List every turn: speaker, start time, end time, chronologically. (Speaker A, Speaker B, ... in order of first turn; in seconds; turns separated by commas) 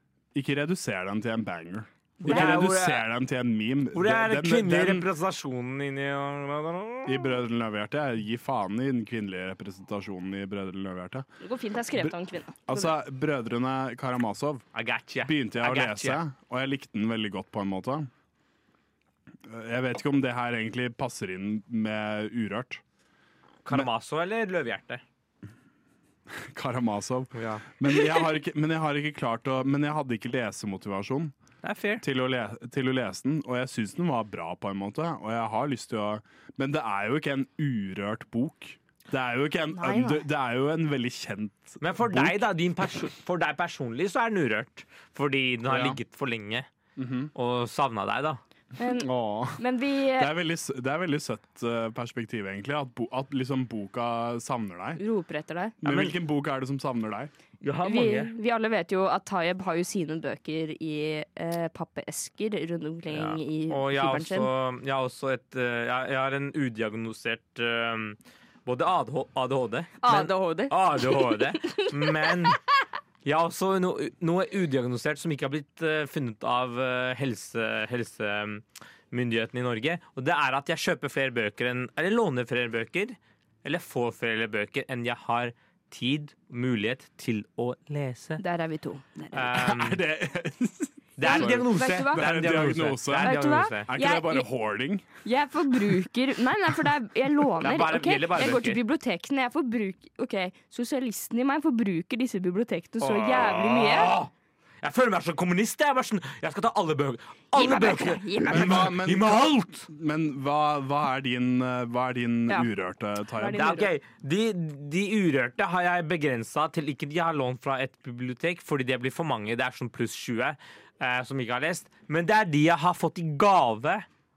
Speaker A: 0.3-5.1, Speaker B: 2.2-2.6, Speaker C: 2.2-3.1, Speaker C: 3.9-7.4, Speaker A: 7.0-11.3, Speaker B: 11.4-12.9, Speaker A: 12.7-14.6, Speaker C: 14.8-16.2, Speaker A: 15.2-18.1, Speaker A: 19.4-22.8, Speaker C: 23.6-25.0, Speaker A: 26.4-31.3, Speaker C: 27.4-27.6, Speaker C: 31.6-32.0, Speaker A: 32.0-42.5, Speaker B: 39.7-40.2, Speaker C: 41.8-46.7, Speaker A: 45.7-46.0, Speaker A: 47.0-47.3, Speaker C: 47.4-48.4, Speaker B: 48.8-50.3, Speaker A: 48.9-49.6, Speaker A: 50.1-55.0, Speaker B: 55.0-55.8, Speaker A: 55.8-57.3, Speaker C: 55.8-56.2, Speaker C: 57.6-58.3, Speaker B: 57.8-64.5, Speaker C: 63.1-72.6, Speaker B: 70.0-72.5, Speaker C: 73.2-88.4, Speaker B: 88.4-89.5, Speaker C: 89.3-90.0, Speaker A: 89.5-95.1, Speaker C: 91.2-93.9, Speaker B: 91.2-92.2, Speaker B: 93.2-94.5, Speaker B: 95.2-104.1, Speaker C: 97.6-98.8, Speaker C: 103.0-104.3, Speaker C: 104.8-109.9, Speaker B: 107.5-108.9, Speaker A: 108.5-113.7, Speaker B: 113.4-113.9, Speaker C: 113.5-124.1